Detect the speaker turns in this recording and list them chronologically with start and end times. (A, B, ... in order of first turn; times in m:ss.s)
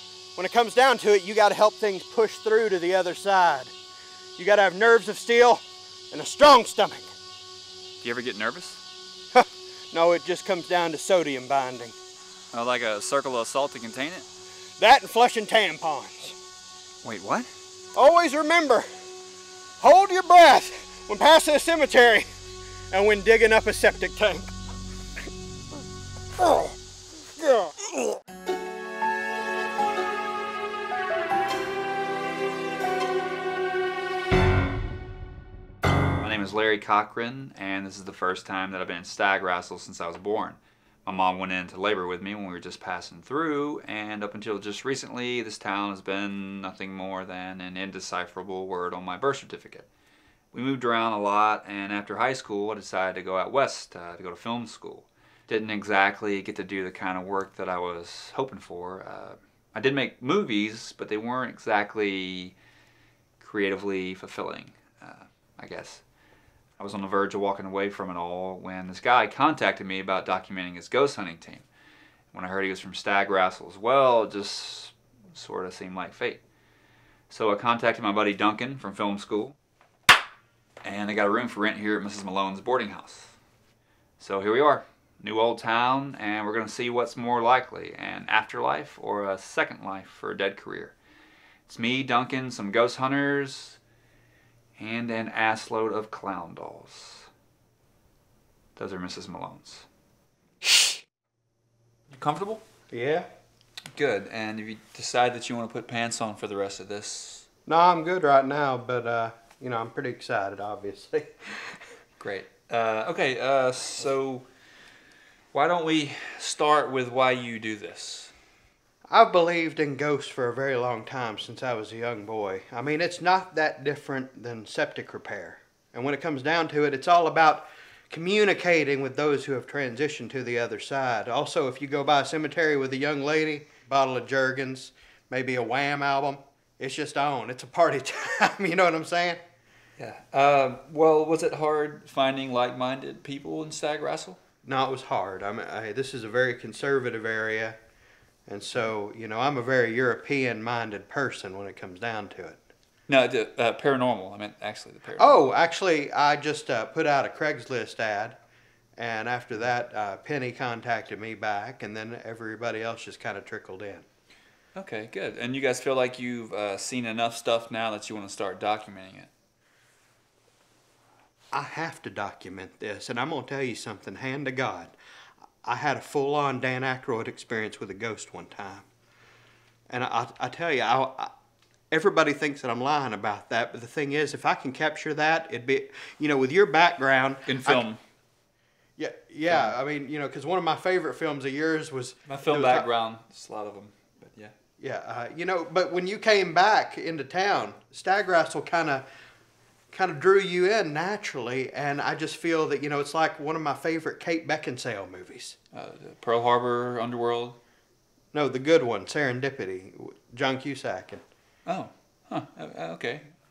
0:00.4-0:03.7 A
0:04.4-0:07.1 A
0:08.0-0:08.8 B
0:09.3-0:11.9 A
0:12.5-0:14.3 B
0:14.8-0:16.4 A
0:17.0-0:17.5 B
0:18.0-0:18.9 A
0:19.8-0:22.3 A
0:22.9-0:24.5 A
0:26.4-0:26.7 A
0:27.4-0:27.7 A
0:36.2-0:49.9 B
0:50.5-1:02.6 B
1:03.4-1:06.0 B
1:06.8-1:11.6 B
1:12.3-1:16.4 B
1:17.3-1:19.6 B
1:20.8-1:23.4 B
1:24.2-1:31.0 B
1:31.7-1:33.8 B
1:34.8-1:37.3 B
1:38.8-1:39.9 B
1:40.6-1:41.0 B
1:42.1-1:42.6 B
1:42.9-1:43.3 A
1:43.9-1:47.5 B
1:47.7-1:51.8 A
1:52.2-1:54.5 B
1:55.5-1:58.3 B
1:59.1-2:19.4 A
2:20.0-2:24.4 B
2:24.6-2:27.8 A
2:28.5-2:32.6 A
2:33.1-2:35.4 B
2:35.2-2:38.4 A
2:39.0-2:44.1 A
2:44.8-2:49.3 B
2:51.5-2:54.9 A
2:55.6-2:58.8 A
2:59.9-3:01.3 A
3:01.9-3:07.8 A
3:07.5-3:08.0 B
3:09.0-3:12.9 A
3:09.5-3:09.8 B
3:12.3-3:14.5 B
3:14.8-3:19.1 A
3:19.9-3:25.6 A
3:25.7-3:27.6 B
3:28.3-3:31.2 A
3:31.7-3:33.3 B